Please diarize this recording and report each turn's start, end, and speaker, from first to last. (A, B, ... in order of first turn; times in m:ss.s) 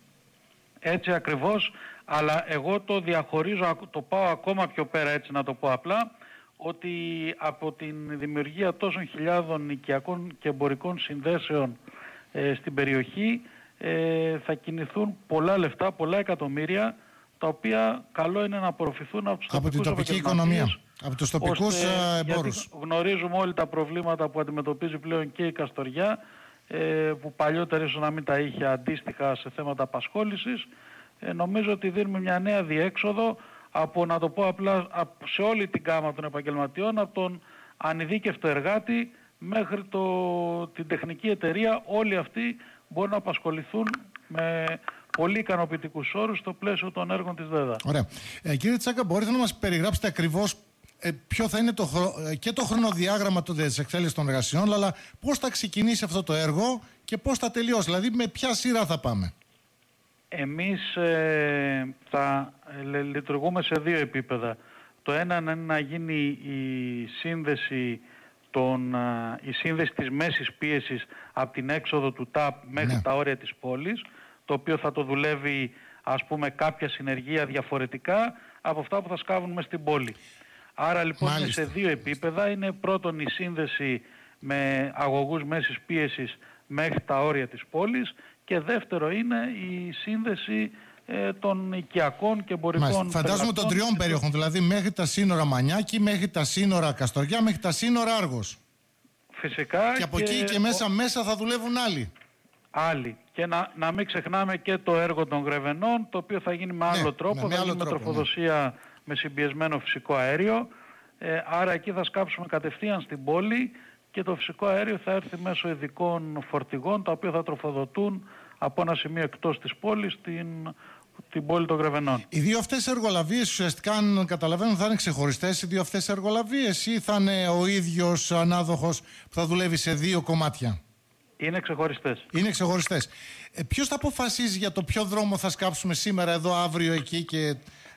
0:00.8-0:11.8 A
0:12.3-0:20.8 A
0:19.5-0:22.7 B
0:21.4-0:26.2 A
0:26.7-0:30.7 A
0:31.2-0:47.8 A
0:47.8-0:59.3 B
1:00.3-1:08.0 A
1:08.5-1:20.2 A
1:12.8-1:13.0 B
1:20.8-1:34.2 A
1:21.2-1:21.7 B
1:32.8-1:38.6 B
1:39.4-1:40.8 A
1:40.0-1:42.1 B
1:42.8-1:50.7 A
1:46.9-1:48.3 B
1:51.2-2:00.8 A
2:01.3-2:02.3 A
2:02.3-2:10.8 B
2:11.4-2:12.3 A
2:12.3-2:17.6 B